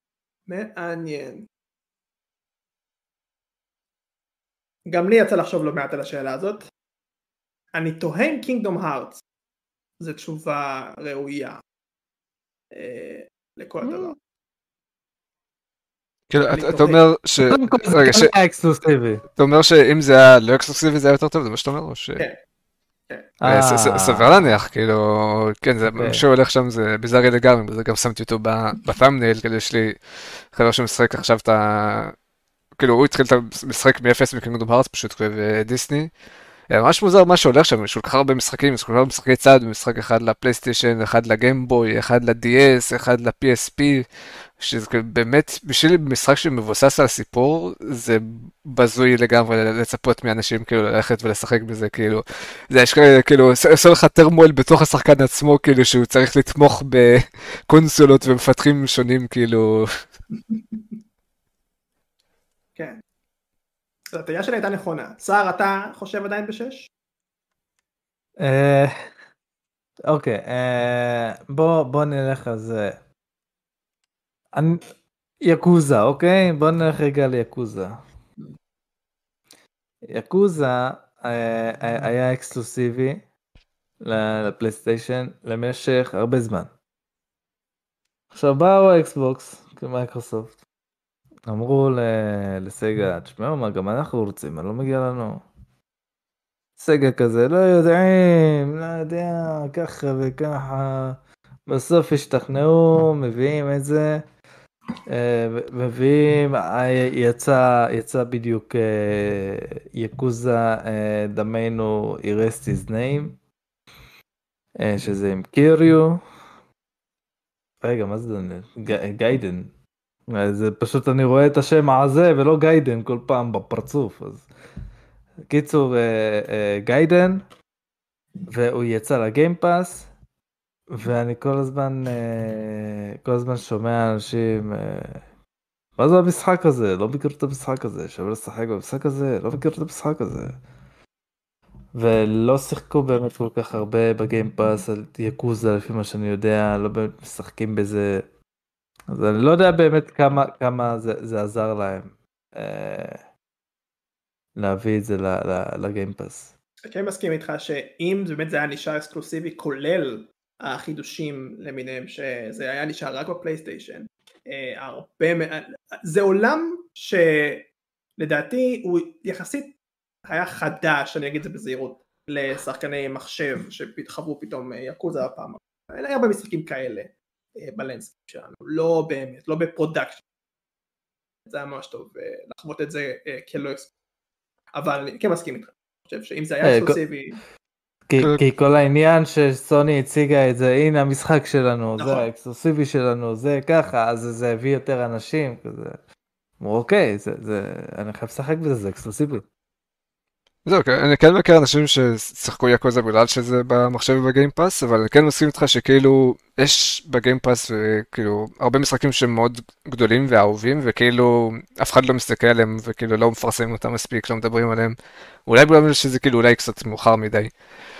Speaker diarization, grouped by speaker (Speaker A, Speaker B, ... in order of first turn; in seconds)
Speaker A: 0.5-1.5, 4.9-6.7, 7.7-9.2, 10.0-11.6, 12.7-14.2, 16.5-17.0, 60.5-60.8, 64.1-66.9, 156.9-180.2, 181.5-183.9, 184.8-187.4, 192.0-192.2
Speaker B: 13.8-14.1, 17.5-19.2, 23.4-24.4, 25.9-26.2, 68.4-68.9, 70.1-73.0, 74.5-74.8, 75.4-78.0, 80.1-83.2, 84.0-86.7, 88.3-90.6, 91.5-95.4, 96.8-104.2, 105.1-113.4, 114.8-116.2, 117.8-119.7, 120.3-124.5, 125.5-127.4, 128.5-130.1, 130.9-135.2, 136.0-140.6, 141.9-148.2, 149.1-153.2, 154.6-156.5, 186.6-187.0, 188.1-196.0, 196.6-199.4
Speaker C: 16.3-18.3, 19.4-22.2, 23.5-30.0, 30.5-32.1, 32.8-36.1, 36.7-44.0, 44.6-59.9, 200.7-214.9, 215.5-217.5